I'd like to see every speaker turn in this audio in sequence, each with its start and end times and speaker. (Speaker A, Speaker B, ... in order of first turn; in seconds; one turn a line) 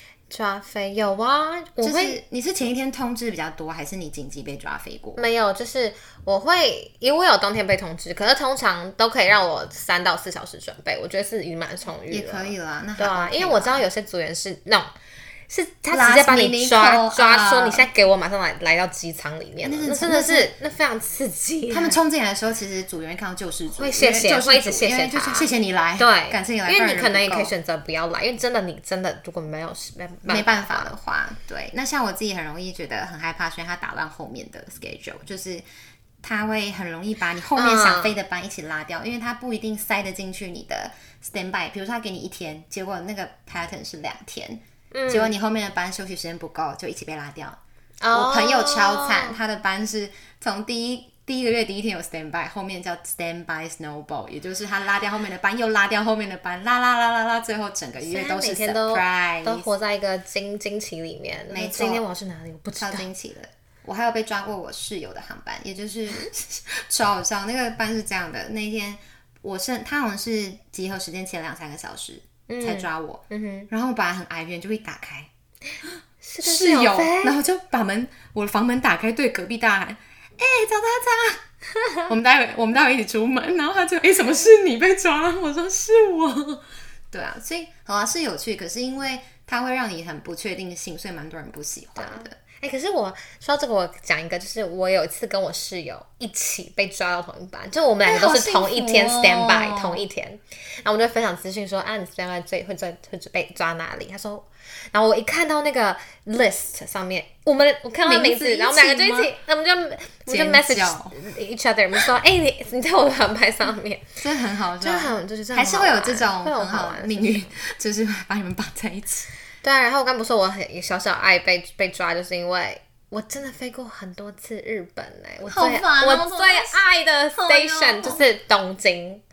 Speaker A: 0.3-2.2
Speaker B: 1.8-5.2
Speaker A: 5.2-14.9
Speaker B: 12.1-13.9
Speaker A: 15.5-22.0
Speaker B: 15.9-17.9
Speaker B: 19.6-20.5
Speaker B: 21.7-27.5
Speaker A: 23.8-30.9
Speaker B: 30.2-35.6
Speaker B: 36.2-47.6
Speaker A: 37.6-38.2
Speaker A: 44.9-45.3
Speaker A: 48.0-49.4
Speaker B: 48.1-59.7
Speaker A: 58.0-63.1
Speaker B: 61.5-62.1
Speaker B: 62.8-75.3
Speaker A: 72.5-73.7
Speaker A: 76.2-77.3
Speaker B: 76.4-81.4
Speaker B: 82.0-92.4
Speaker A: 92.0-114.1
Speaker B: 98.0-100.0
Speaker B: 108.0-109.3
Speaker B: 110.3-111.2
Speaker B: 114.2-119.3
Speaker A: 114.8-117.5
Speaker A: 119.6-129.2
Speaker B: 125.5-126.8
Speaker B: 127.3-128.2